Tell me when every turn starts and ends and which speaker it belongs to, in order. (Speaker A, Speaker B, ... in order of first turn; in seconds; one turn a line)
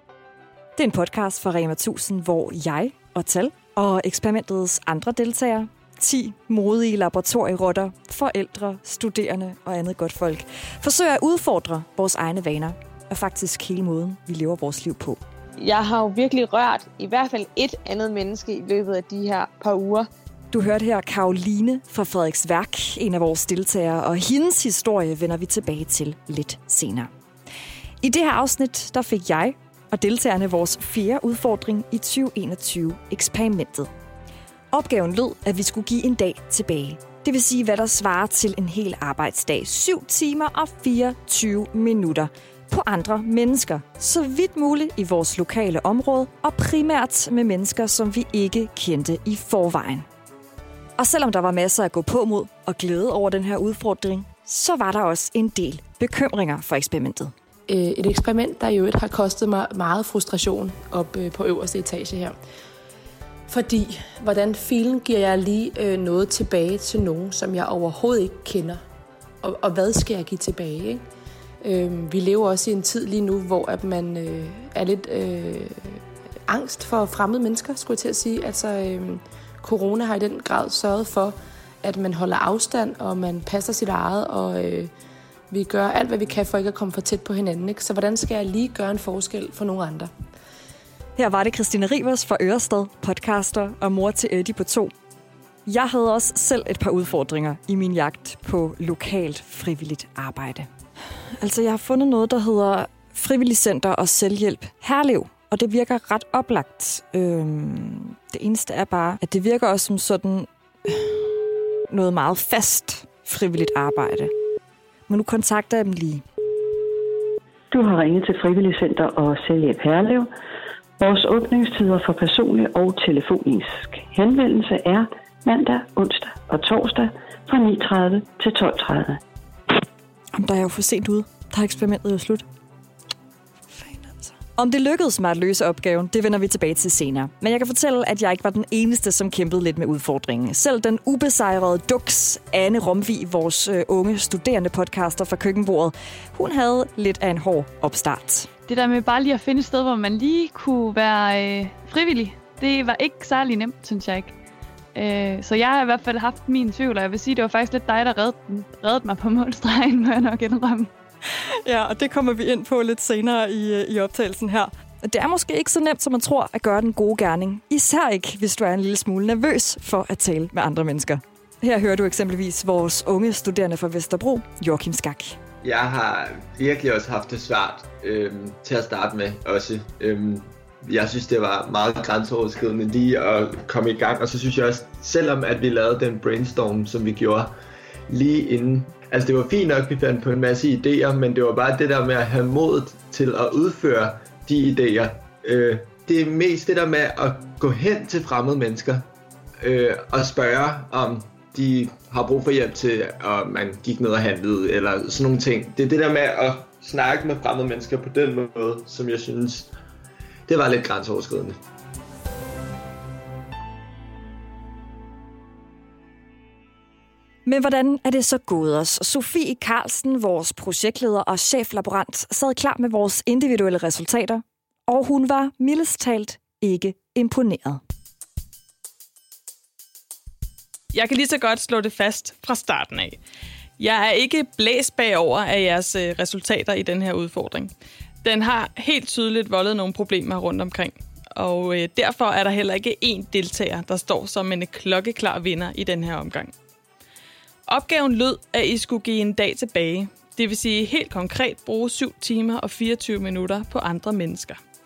Speaker A: 0.8-15.2
Speaker B: 15.6-20.1
Speaker A: 20.5-27.1
Speaker A: 28.0-33.9
Speaker A: 34.7-50.0
Speaker A: 51.0-57.3
Speaker C: 57.7-62.4
Speaker C: 63.5-68.8
Speaker C: 69.4-71.0
Speaker C: 71.6-84.9
Speaker C: 85.5-90.1
Speaker A: 91.2-94.9
Speaker A: 95.7-100.7
Speaker A: 101.4-111.3
Speaker A: 111.9-114.3
Speaker A: 115.1-116.2
Speaker D: 117.7-120.3
Speaker D: 121.0-129.2
Speaker A: 130.3-132.4
Speaker A: 133.7-148.5
Speaker E: 148.7-154.3
Speaker E: 154.9-160.9
Speaker A: 161.6-175.4
Speaker F: 175.6-187.5
Speaker F: 188.1-199.1
Speaker F: 199.6-209.7
Speaker F: 210.5-211.6
Speaker A: 217.4-227.8
Speaker G: 230.9-233.2
Speaker G: 233.8-237.7
Speaker G: 238.2-246.5
Speaker G: 247.7-254.6